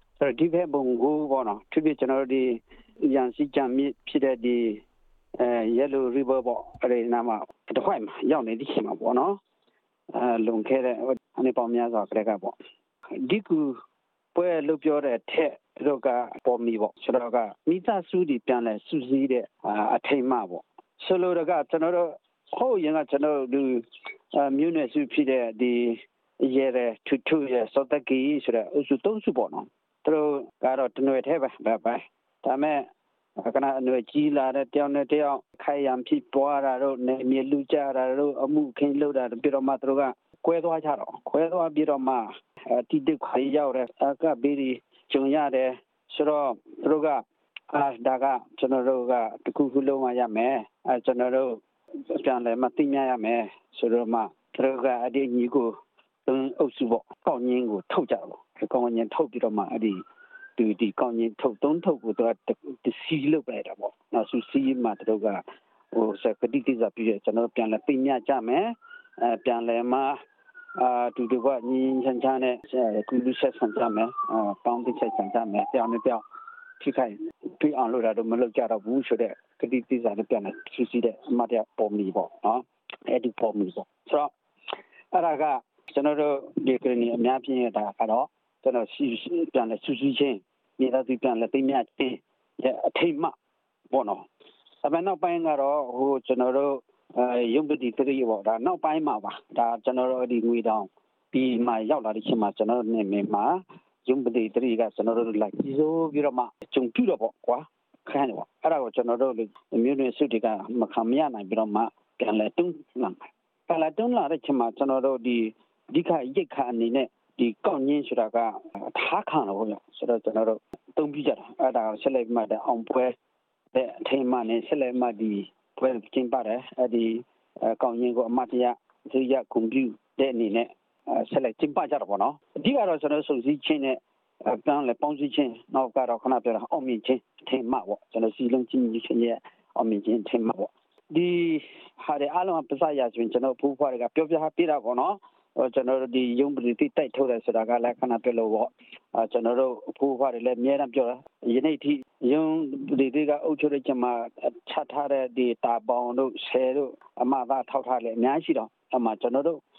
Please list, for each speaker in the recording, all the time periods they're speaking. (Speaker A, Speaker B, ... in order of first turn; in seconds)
Speaker A: 0.2-4.8, 5.4-9.4, 10.1-12.5, 13.1-13.8, 14.3-32.8, 33.4-55.7, 56.2-60.0, 60.6-70.2, 70.8-76.2, 76.8-84.3, 85.1-93.3, 93.9-94.2, 94.8-123.1, 123.7-159.6